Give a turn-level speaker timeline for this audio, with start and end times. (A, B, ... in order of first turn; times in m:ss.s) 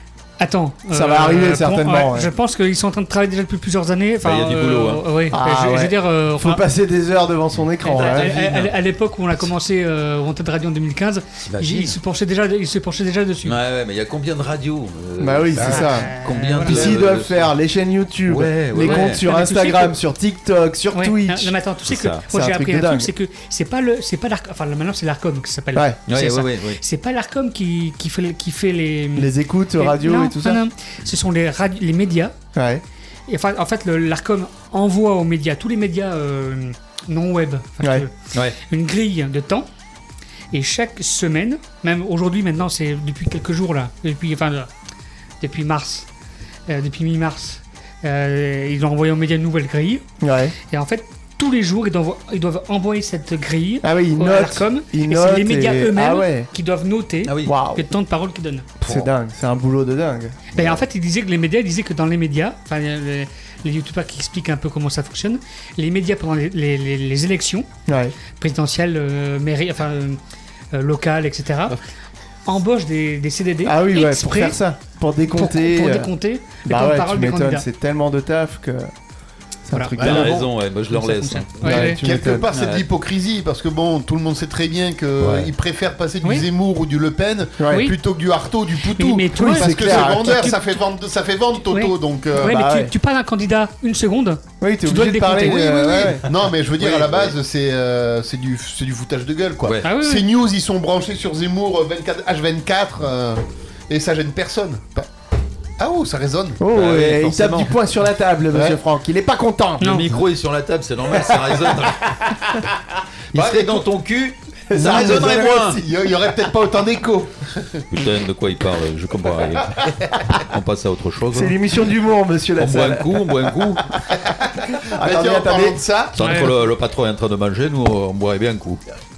0:00.4-0:06.6 A
0:00.9-0:02.3 B
0:04.2-0:05.0 C
0:05.3-0:08.3 B
0:07.8-0:13.6 A
0:07.9-0:08.7 C
0:11.5-0:12.0 C
0:13.4-0:17.5 C
0:15.2-0:16.1 B
0:15.7-0:16.9 A
0:16.6-0:21.6 B
0:18.3-0:19.2 C
0:18.8-0:20.0 A
0:20.9-0:32.3 A
0:21.9-0:22.2 C
0:22.3-0:23.1 B
0:26.1-0:26.8 C
0:29.2-0:30.6 B
0:32.6-0:32.8 B
0:33.3-0:39.7 A
0:40.5-0:44.7 A
0:45.4-0:46.1 A
0:46.7-0:50.0 A
0:50.2-0:50.6 B
0:50.7-0:58.7 A
0:53.8-0:56.5 B
0:57.3-0:57.5 C
0:57.4-0:57.9 B
0:58.8-1:00.5 B
0:58.8-0:59.1 C
1:00.6-1:07.7 A
1:07.9-1:08.2 B
1:08.4-1:10.2 A
1:10.7-1:11.8 A
1:12.5-1:14.6 A
1:13.6-1:16.1 B
1:15.3-1:17.7 A
1:16.6-1:18.9 B
1:19.6-1:20.4 B
1:19.7-1:20.4 A
1:20.0-1:21.9 C
1:20.0-1:20.4 D
1:20.9-1:22.0 A
1:21.6-1:22.5 B
1:22.0-1:32.6 D
1:22.5-1:22.9 C
1:25.2-1:25.5 B
1:27.6-1:27.9 B
1:27.7-1:28.0 A
1:29.0-1:30.6 A
1:29.3-1:30.5 B
1:31.7-1:36.2 A
1:32.4-1:32.9 B
1:34.6-1:36.3 B
1:36.2-1:45.1 D
1:36.8-1:37.4 C
1:39.8-1:40.3 A
1:45.8-1:46.6 D
1:46.6-1:50.0 B
1:46.7-1:47.8 C
1:48.5-1:48.8 D
1:49.8-1:50.1 A
1:49.8-1:52.1 C
1:53.3-1:55.8 C
1:53.3-1:53.8 D
1:54.7-1:55.8 B
1:54.8-1:57.8 D
1:57.9-2:01.6 C
2:01.3-2:03.2 B
2:02.6-2:03.9 C
2:04.8-2:05.8 B
2:05.0-2:06.2 D
2:06.2-2:08.8 C
2:06.2-2:06.5 A